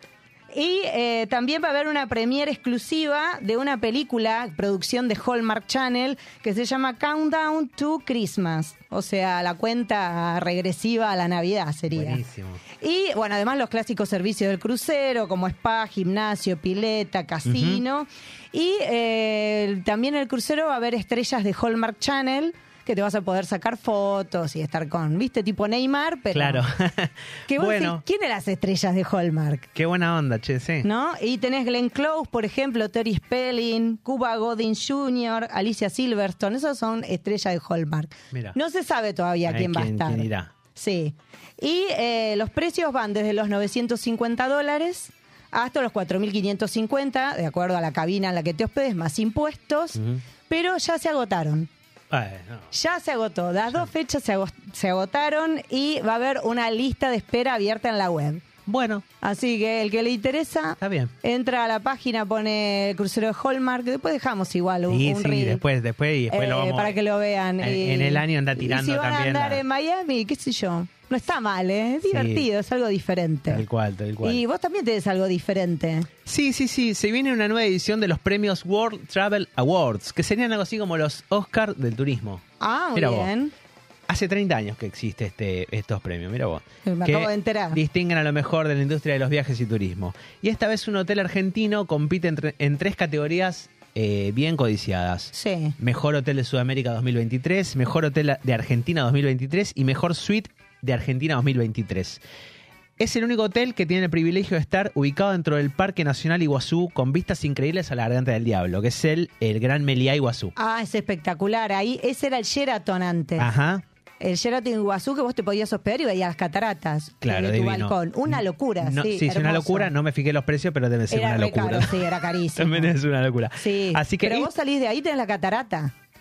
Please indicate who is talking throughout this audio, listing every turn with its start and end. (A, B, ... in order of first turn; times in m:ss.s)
0:00.5-0:12.2 A
0:11.9-0:12.6 B
0:12.8-0:26.6 A
0:17.5-0:17.8 B
0:26.3-0:28.0 B
0:27.5-0:29.7 A
0:29.8-0:30.9 B
0:30.8-0:51.7 A
0:39.4-0:40.5 B
0:50.0-0:50.2 B
0:52.1-0:52.7 B
0:52.7-0:58.4 A
0:58.7-0:59.0 B
0:59.2-1:05.6 A
1:00.8-1:01.1 B
1:04.9-1:07.0 B
1:06.3-1:13.6 A
1:07.6-1:09.6 B
1:12.1-1:12.5 B
1:13.5-1:14.4 B
1:14.2-1:16.1 A
1:16.3-1:22.4 B
1:22.6-1:23.5 A
1:23.0-1:23.3 B
1:24.1-1:42.2 B
1:26.8-1:27.8 A
1:35.3-1:35.8 A
1:43.0-1:50.5 B
1:50.6-1:53.5 A
1:53.4-1:53.8 B
1:54.2-1:59.9 A
1:57.2-2:04.5 B
2:01.1-2:03.0 A
2:03.6-2:05.9 A